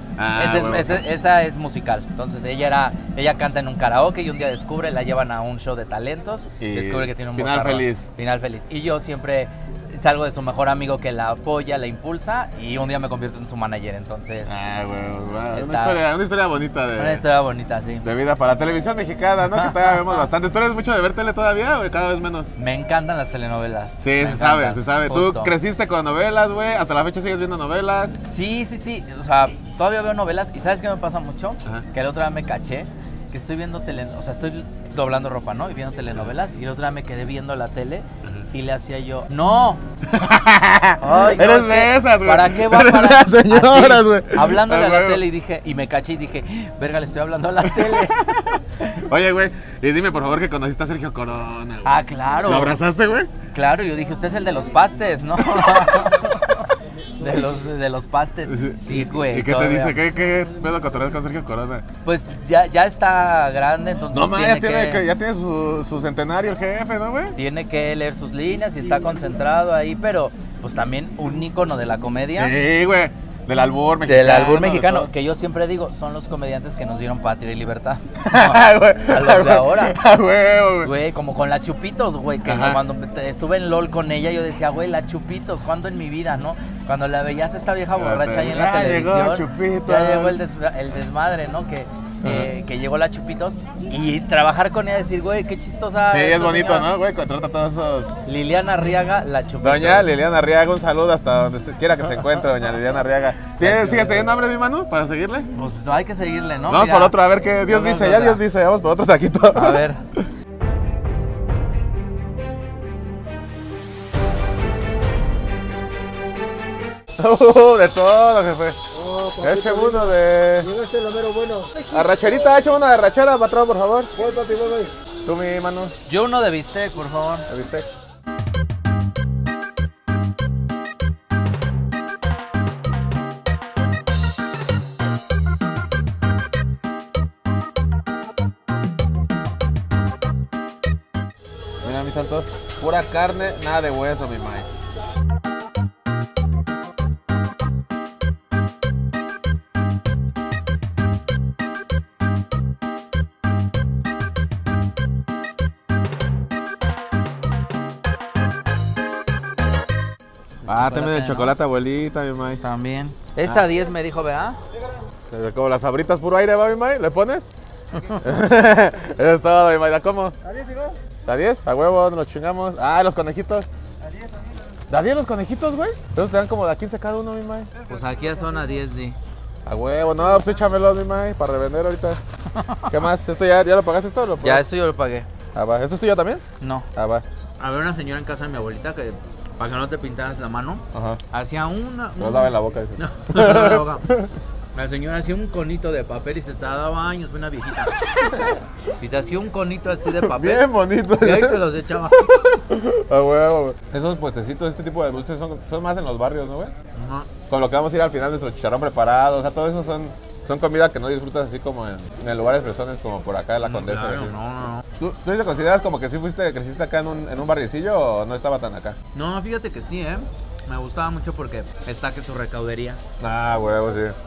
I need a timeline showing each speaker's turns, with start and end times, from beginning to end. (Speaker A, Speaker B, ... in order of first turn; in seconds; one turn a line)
Speaker A: 0.2-1.0
Speaker B: 0.3-14.5
Speaker A: 6.6-8.0
Speaker A: 14.5-17.2
Speaker B: 15.5-16.0
Speaker B: 17.0-18.1
Speaker A: 18.0-22.5
Speaker B: 19.4-20.2
Speaker B: 22.6-25.5
Speaker A: 24.0-28.2
Speaker B: 28.2-39.8
Speaker A: 40.1-45.2
Speaker B: 41.0-49.0
Speaker A: 47.6-48.1
Speaker A: 48.9-53.3
Speaker B: 51.8-52.8
Speaker B: 53.5-60.0
Speaker A: 55.4-55.9
Speaker A: 58.5-61.9
Speaker B: 62.0-65.0
Speaker A: 64.1-67.4
Speaker B: 67.4-72.5
Speaker A: 72.3-75.1
Speaker B: 74.0-80.0
Speaker A: 78.2-80.9
Speaker B: 80.8-96.9
Speaker A: 82.4-82.8
Speaker A: 87.9-90.4
Speaker A: 92.2-92.5
Speaker A: 96.1-98.1
Speaker B: 98.2-100.1
Speaker A: 99.6-105.5
Speaker B: 103.6-104.3
Speaker B: 105.5-108.4
Speaker A: 106.7-110.3
Speaker B: 109.5-110.0
Speaker A: 117.2-118.8
Speaker C: 119.0-122.1
Speaker A: 119.4-120.7
Speaker A: 121.9-124.1
Speaker C: 124.2-125.0
Speaker A: 125.2-126.0
Speaker B: 126.1-127.5
Speaker A: 127.5-127.9
Speaker A: 141.8-144.8
Speaker A: 160.7-162.6
Speaker B: 160.7-161.5
Speaker B: 162.6-164.6
Speaker A: 165.3-167.5
Speaker A: 168.1-170.4
Speaker C: 170.5-170.9
Speaker A: 171.2-173.7
Speaker A: 174.9-177.7
Speaker B: 177.9-179.2
Speaker A: 179.7-182.2
Speaker B: 182.6-182.9
Speaker A: 182.9-184.7
Speaker B: 184.4-185.3
Speaker A: 185.5-186.4
Speaker B: 186.6-186.9
Speaker A: 186.9-187.2
Speaker B: 187.6-194.1
Speaker A: 190.9-191.2
Speaker A: 192.2-194.3
Speaker B: 194.7-197.9
Speaker B: 199.0-202.3
Speaker A: 200.2-206.7
Speaker B: 207.0-207.3
Speaker A: 207.5-214.4
Speaker B: 213.6-214.8
Speaker A: 215.0-219.0
Speaker B: 219.1-223.0
Speaker A: 223.2-224.2